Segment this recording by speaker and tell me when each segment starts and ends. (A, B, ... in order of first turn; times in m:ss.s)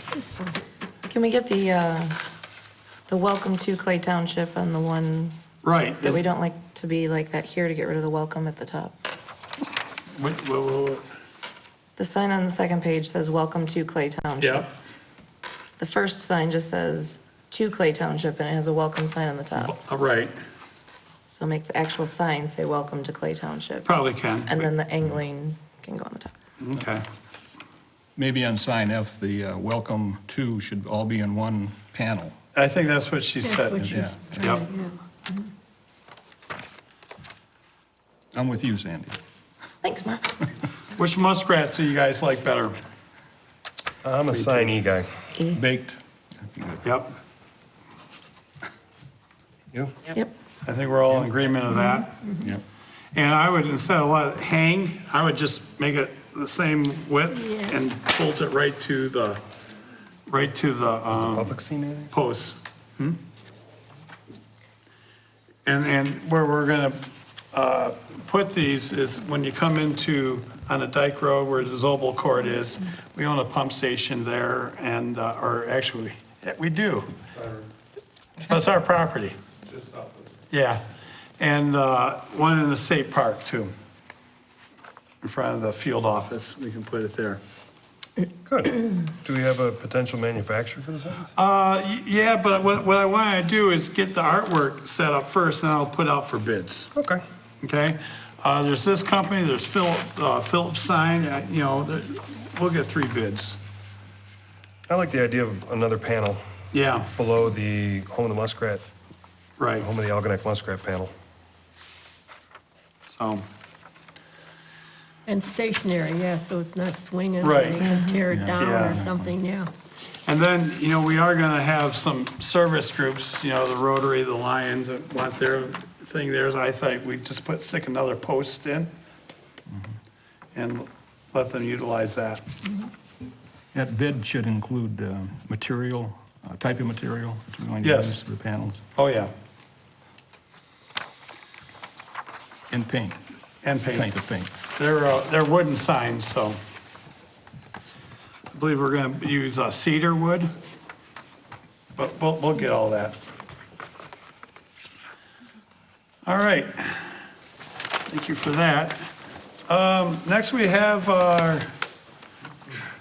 0:00.2-0:00.5 A
0:01.1-0:02.2 B
0:03.1-0:05.4 B
0:05.6-0:06.2 C
0:06.0-0:09.0 B
0:10.1-0:11.0 C
0:12.0-0:14.7 B
0:14.4-0:14.7 C
0:15.8-0:19.8 B
0:19.6-0:20.3 C
0:21.3-0:23.9 B
0:23.8-0:24.7 C
0:24.4-0:26.3 B
0:26.6-0:27.0 C
0:28.2-0:32.3 D
0:32.5-0:34.6 C
0:33.4-0:35.5 A
0:33.8-0:34.5 D
0:38.3-0:39.2 D
0:39.8-0:40.4 B
0:40.9-0:42.8 C
0:44.0-0:45.1 E
0:44.3-0:44.7 C
0:45.5-0:46.8 D
0:46.8-0:47.1 C
0:50.6-0:52.1 C
0:52.0-0:52.5 A
0:53.1-0:59.4 C
0:57.4-0:57.8 A
1:00.3-1:01.5 C
1:01.1-1:02.2 E
1:02.1-1:03.2 C
1:05.6-1:17.2 C
1:17.4-1:17.7 E
1:18.4-1:19.3 C
1:19.7-1:20.3 E
1:20.5-1:20.8 C
1:21.4-1:23.7 C
1:25.2-1:27.4 C
1:28.4-1:31.3 E
1:31.3-1:36.9 C
1:36.9-1:37.2 E
1:37.6-1:43.6 C
1:44.9-1:46.4 E
1:46.7-1:47.1 C
1:47.2-1:48.8 E
1:49.6-1:49.9 C
1:49.8-1:51.1 E
1:53.1-1:53.4 C
1:55.2-1:59.7 A
1:57.4-1:57.9 C
1:57.8-1:58.2 B
1:58.3-1:59.3 D
1:58.6-1:59.0 C
2:00.2-2:08.9 C
2:10.5-2:12.4 C
2:13.7-2:18.8 D
2:17.8-2:18.2 C
2:18.9-2:19.3 C
2:22.7-2:23.2 D
2:23.6-2:24.1 C
2:23.9-2:24.5 D
2:24.7-2:26.6 C
2:28.5-2:30.5 C
2:32.0-2:33.2 C
2:36.2-2:37.1 C
2:38.1-2:39.1 C
2:39.7-2:41.7 C